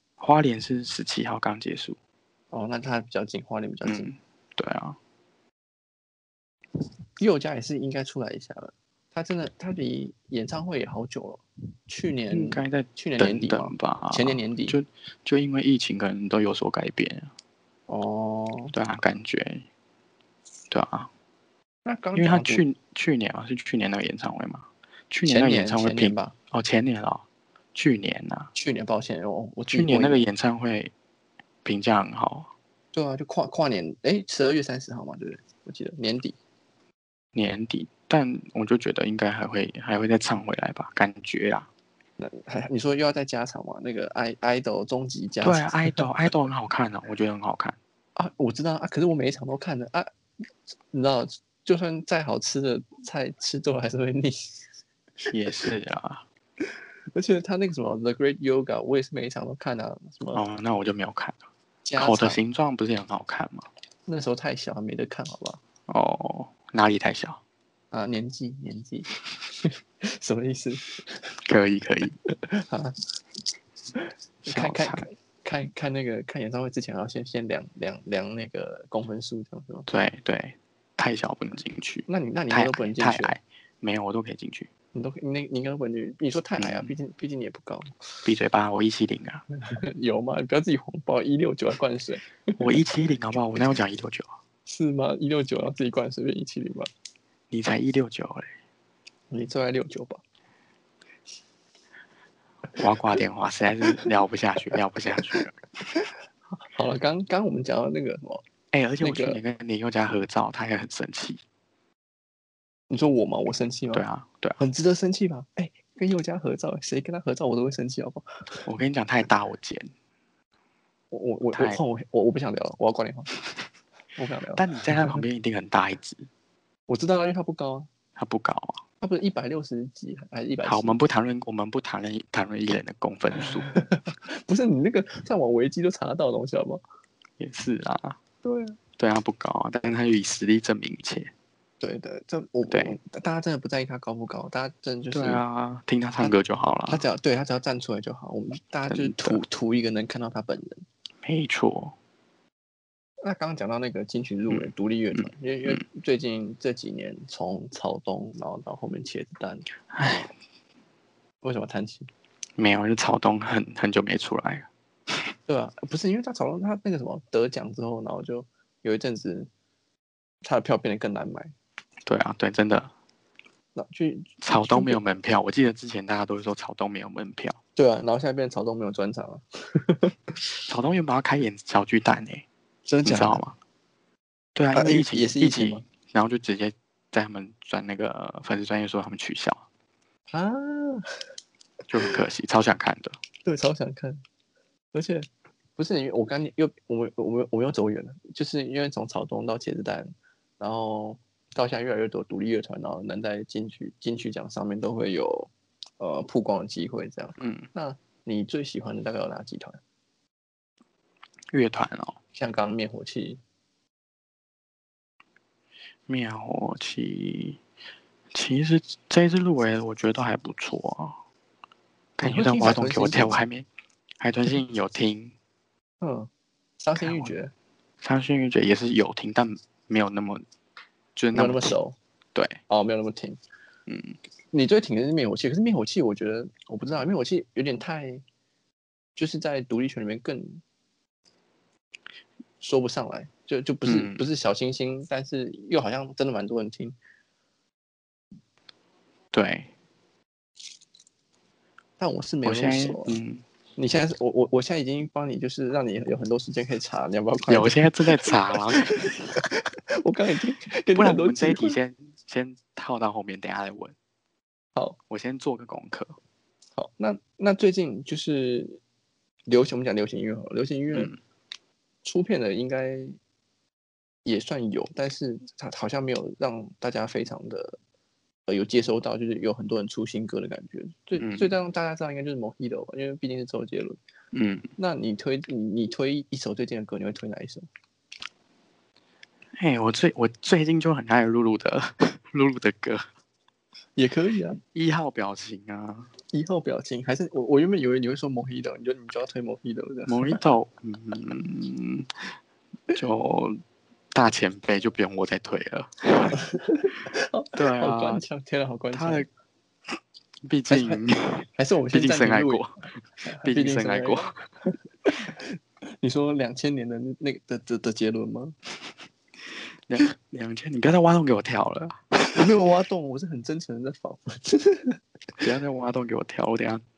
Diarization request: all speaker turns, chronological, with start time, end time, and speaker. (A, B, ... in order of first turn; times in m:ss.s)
0:00.2-0:02.0 A
0:02.5-0:04.1 B
0:03.8-0:05.0 A
0:07.2-0:14.8 B
0:12.3-0:17.3 A
0:17.9-0:18.7 B
0:18.7-0:19.6 A
0:20.7-0:21.1 A
0:21.8-0:22.6 B
0:22.1-0:27.2 A
0:25.2-0:26.3 B
0:27.8-0:28.5 A
0:28.5-0:30.2 B
0:29.7-0:30.9 A
0:31.6-0:32.5 A
0:32.9-0:36.4 B
0:37.4-0:41.7 A
0:42.2-0:46.1 B
0:45.4-0:47.8 A
0:48.2-0:50.1 B
0:50.9-0:54.6 B
0:55.3-0:56.2 A
0:57.1-1:00.4 B
1:00.3-1:01.4 A
1:01.8-1:02.4 B
1:02.0-1:03.7 A
1:04.1-1:05.6 B
1:05.9-1:07.4 A
1:07.9-1:11.3 B
1:11.4-1:12.2 A
1:12.3-1:13.0 B
1:13.9-1:19.9 B
1:14.4-1:15.0 A
1:19.9-1:24.7 A
1:22.1-1:23.4 B
1:24.9-1:27.9 B
1:26.6-1:26.9 A
1:28.2-1:29.4 A
1:29.6-1:32.8 B
1:32.6-1:34.3 A
1:34.6-1:36.9 B
1:37.5-1:38.5 A
1:39.3-1:40.2 B
1:42.7-1:45.6 A
1:45.3-1:48.4 B
1:48.7-1:51.4 A
1:49.0-1:49.4 B
1:52.9-1:54.0 B
1:53.9-1:54.6 A
1:54.6-1:58.6 B
1:58.6-1:59.9 A
2:01.1-2:03.3 B
2:01.5-2:01.8 A
2:04.2-2:05.2 B
2:04.6-2:06.3 A
2:06.9-2:07.9 B
2:08.2-2:08.8 A
2:09.0-2:11.0 B
2:10.6-2:13.7 A
2:13.4-2:16.8 B
2:17.4-2:18.2 A
2:18.4-2:18.8 B
2:19.0-2:21.3 A
2:21.8-2:25.4 B
2:22.7-2:23.0 A
2:25.1-2:27.0 A
2:26.9-2:30.8 B
2:28.9-2:29.4 A
2:31.2-2:31.9 A
2:33.2-2:40.3 B
2:34.5-2:35.8 A
2:39.9-2:40.3 A
2:41.4-2:42.1 B
2:42.6-2:44.7 A
2:45.5-2:49.5 B
2:50.4-2:51.5 B
2:52.1-2:52.9 A
2:53.7-2:55.0 B
2:54.4-2:57.6 A
2:57.8-3:00.2 B
3:00.6-3:02.4 A
3:02.9-3:03.4 B
3:03.0-3:03.6 A
3:04.6-3:09.6 A
3:04.7-3:05.8 B
3:10.3-3:11.1 B
3:11.9-3:13.2 A
3:13.4-3:14.2 B
3:14.9-3:29.8 B
3:27.4-3:27.7 A
3:31.5-3:32.2 A
3:32.4-3:33.4 B
3:36.1-3:37.6 A
3:38.3-3:41.2 A
3:42.2-3:43.7 A
3:42.2-3:43.4 B
3:44.2-3:45.4 A
3:46.0-3:47.5 B
3:47.0-3:47.3 A
3:48.0-3:50.4 A
3:51.2-3:51.7 A
3:51.3-3:52.0 B
3:52.4-3:52.6 A
3:52.7-3:53.4 B
3:53.9-3:54.2 A
3:54.5-3:58.2 B
3:59.2-4:00.6 B
4:02.6-4:06.9 B
4:03.9-4:04.2 A
4:09.3-4:09.7 A
4:12.0-4:13.2 B
4:12.4-4:13.4 A
4:13.8-4:21.8 B
4:17.5-4:19.4 A
4:20.9-4:23.9 A
4:25.1-4:26.2 A
4:26.8-4:28.8 B
4:29.5-4:31.1 B
4:30.9-4:31.2 A
4:32.0-4:33.2 B
4:34.2-4:37.8 B
4:38.5-4:44.0 B
4:41.2-4:41.5 A
4:44.3-4:44.7 A
4:44.8-4:47.6 B
4:49.5-4:53.1 A
4:54.0-4:54.6 B
4:54.7-4:56.1 A
4:56.3-5:00.4 B
5:00.1-5:02.4 A
5:02.9-5:03.6 A
5:04.1-5:06.4 A
5:06.4-5:09.3 B
5:07.6-5:08.2 A
5:08.9-5:09.3 A
5:10.4-5:14.4 A
5:10.7-5:12.7 B
5:13.2-5:18.6 B
5:19.5-5:22.5 A
5:22.4-5:25.4 B
5:25.4-5:26.8 A